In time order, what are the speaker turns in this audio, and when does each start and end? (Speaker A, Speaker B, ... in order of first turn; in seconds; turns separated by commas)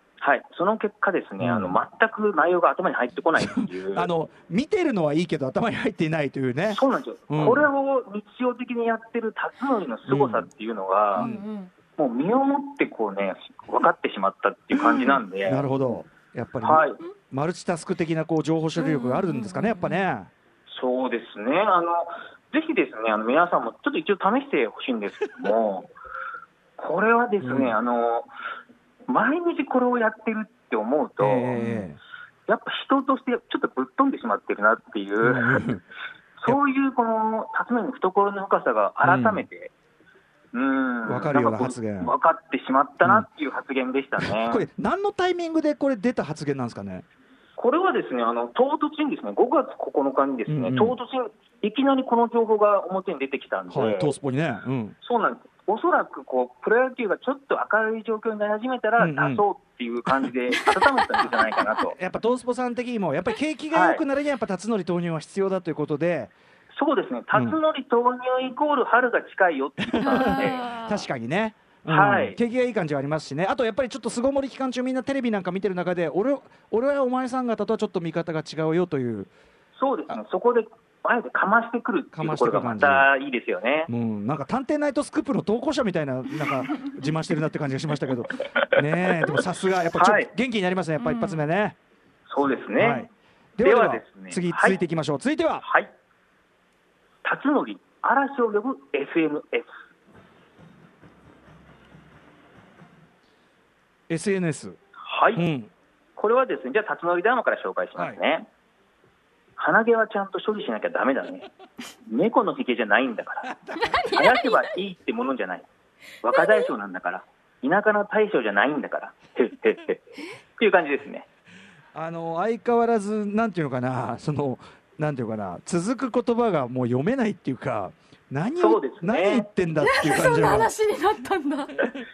Speaker A: 0.2-4.1, Speaker B: 1.4-1.8, Speaker B: 3.4-7.7, Speaker A: 6.7-11.3, Speaker B: 10.1-10.5, Speaker C: 11.1-11.7, Speaker B: 11.2-11.4, Speaker A: 11.9-15.6, Speaker C: 14.9-15.2, Speaker B: 15.4-20.3, Speaker A: 16.6-17.0, Speaker C: 18.8-20.0, Speaker A: 20.7-25.9, Speaker A: 26.8-28.3, Speaker B: 27.4-27.8, Speaker A: 29.1-31.6, Speaker B: 31.2-32.0, Speaker A: 32.5-35.6, Speaker B: 35.2-35.8, Speaker A: 36.4-39.7, Speaker B: 39.0-39.5, Speaker A: 40.5-44.7, Speaker B: 41.0-42.1, Speaker B: 43.0-43.3, Speaker B: 44.2-47.0, Speaker A: 47.6-54.1, Speaker B: 50.5-51.0, Speaker B: 53.7-55.0, Speaker A: 55.0-61.9, Speaker B: 59.0-59.5, Speaker B: 61.8-66.3, Speaker A: 63.7-64.0, Speaker A: 66.7-70.7, Speaker B: 67.3-67.6, Speaker B: 69.9-79.3, Speaker C: 70.0-71.0, Speaker A: 71.9-72.4, Speaker A: 79.7-83.9, Speaker B: 82.1-83.1, Speaker B: 83.9-91.8, Speaker A: 89.9-90.3, Speaker C: 91.0-91.4, Speaker A: 92.3-93.0, Speaker B: 92.7-95.6, Speaker A: 93.6-94.8, Speaker A: 95.6-95.9, Speaker A: 97.2-99.7, Speaker B: 104.1-104.8, Speaker A: 105.0-105.4, Speaker B: 105.3-105.7, Speaker A: 106.2-108.5, Speaker A: 109.5-111.5, Speaker A: 112.0-115.7, Speaker B: 113.4-114.3, Speaker C: 113.8-114.7, Speaker A: 116.2-121.2, Speaker B: 121.9-130.7, Speaker A: 128.6-129.5, Speaker C: 129.8-131.9